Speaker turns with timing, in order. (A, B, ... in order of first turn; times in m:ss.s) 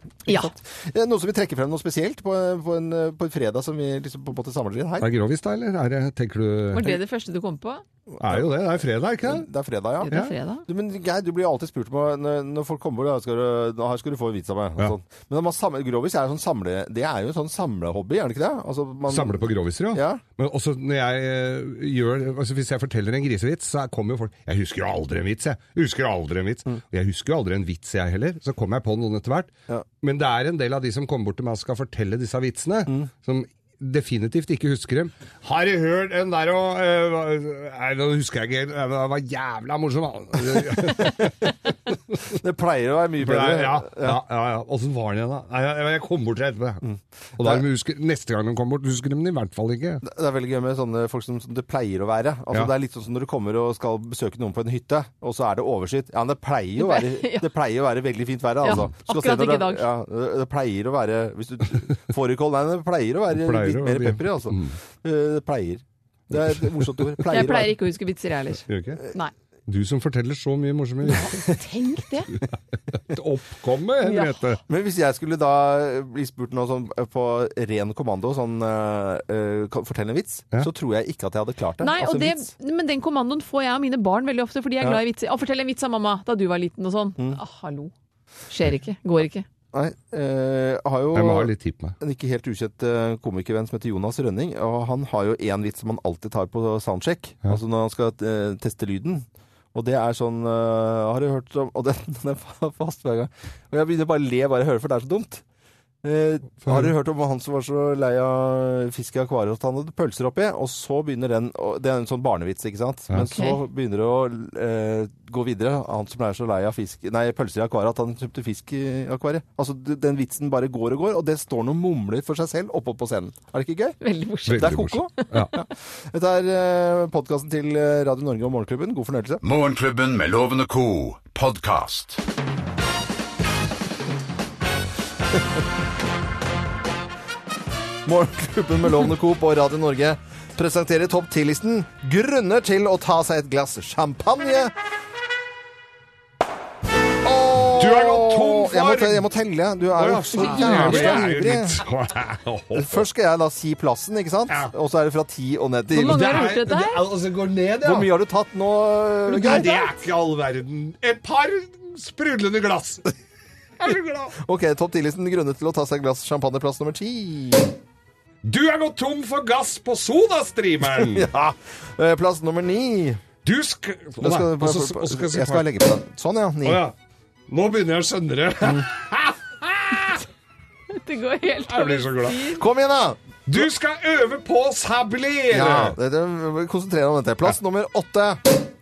0:00.2-0:05.1 A
0:05.0-0:07.0 B
0:06.7-0:07.8 C
0:08.1-0:08.6 A
0:08.2-0:09.4 B
0:09.2-0:20.2 A
0:10.0-0:10.6 C
0:19.1-0:41.5 B
0:40.8-0:41.3 A
0:42.3-0:44.2 A
0:43.2-0:46.8 B
0:46.8-0:47.6 A
0:47.4-0:50.0 B
0:50.0-1:07.8 A
0:56.8-0:57.5 C
0:58.6-0:59.8 C
1:03.3-1:04.8 B
1:06.6-1:07.0 B
1:07.3-1:09.3 C
1:08.7-1:09.0 B
1:09.7-1:11.4 B
1:11.1-1:12.3 C
1:13.1-1:14.6 B
1:14.0-1:14.6 C
1:14.7-1:22.5 A
1:21.8-1:27.9 C
1:28.5-1:29.4 C
1:29.7-1:45.4 A
1:31.1-1:32.0 B
1:46.0-2:04.0 A
1:46.6-1:46.9 B
1:53.3-1:53.6 C
2:04.0-2:05.5 C
2:04.5-2:05.5 B
2:04.5-2:09.4 A
2:09.4-2:12.2 D
2:18.0-2:24.7 A
2:27.2-2:31.8 A
2:27.8-2:29.3 B
2:29.9-2:33.0 B
2:30.6-2:31.2 C
2:32.7-2:36.2 A
2:35.9-2:37.0 C
2:36.0-2:38.1 B
2:37.8-2:39.7 A
2:39.3-2:39.9 C
2:39.4-2:43.1 B
2:43.8-2:44.4 B
2:44.4-2:47.7 A
2:48.4-2:51.3 B
2:50.9-2:53.2 A
2:53.4-2:55.6 B
2:54.2-2:56.8 A
2:56.6-2:56.9 B
2:57.5-3:00.2 B
3:00.9-3:02.6 C
3:01.7-3:02.4 B
3:02.6-3:03.6 A
3:03.5-3:06.0 B
3:05.5-3:08.4 A